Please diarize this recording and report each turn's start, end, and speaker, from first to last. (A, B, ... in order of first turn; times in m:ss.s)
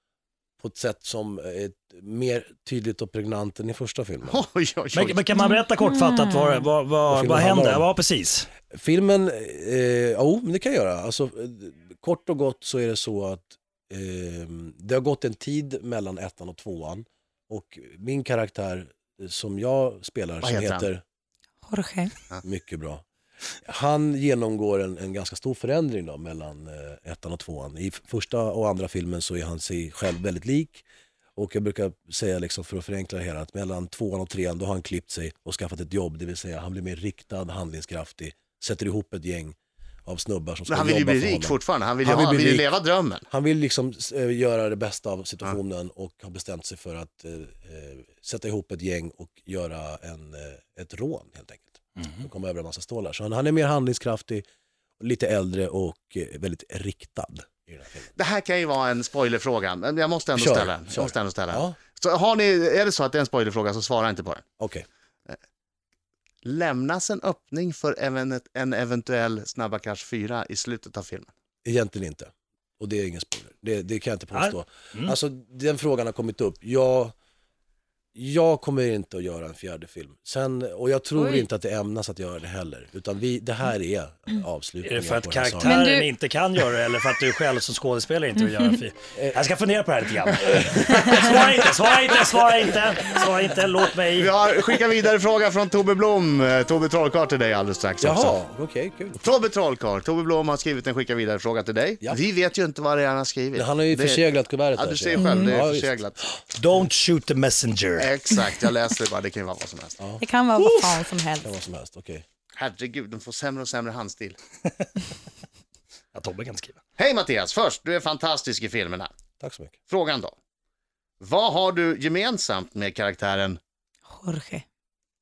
0:00.6-0:04.4 A
0:04.3-0:05.2 B
0:04.9-0:08.5 C
0:05.4-0:06.6 D
0:07.1-0:07.9 A
0:08.7-0:21.0 A
0:20.4-0:20.8 B
0:21.7-0:22.1 D
0:22.4-0:23.0 A
0:23.6-0:30.8 A
0:31.4-0:42.7 A
0:40.7-0:43.2 B
0:43.3-0:54.4 A
0:55.0-0:58.1 A
0:58.2-1:04.4 B
1:00.3-1:01.8 A
1:04.6-1:04.8 A
1:06.4-1:11.3 B
1:11.6-1:17.1 A
1:14.3-1:15.1 C
1:18.1-1:25.8 A
1:21.2-1:21.4 D
1:24.8-1:34.3 C
1:25.6-1:26.1 D
1:30.4-1:31.4 A
1:34.2-1:38.3 B
1:38.0-1:39.2 A
1:39.2-1:44.2 B
1:43.5-1:45.9 A
1:44.7-1:46.2 B
1:45.2-1:45.6 D
1:46.5-1:48.1 C
1:48.0-1:50.0 B
1:50.0-1:50.8 A
1:50.2-1:51.5 D
1:51.4-1:52.2 A
1:52.6-1:54.4 B
1:56.1-1:56.8 C
1:57.0-1:59.1 B
1:59.4-1:59.8 A
1:59.9-2:00.3 B
2:01.2-2:03.6 B
2:04.1-2:04.6 D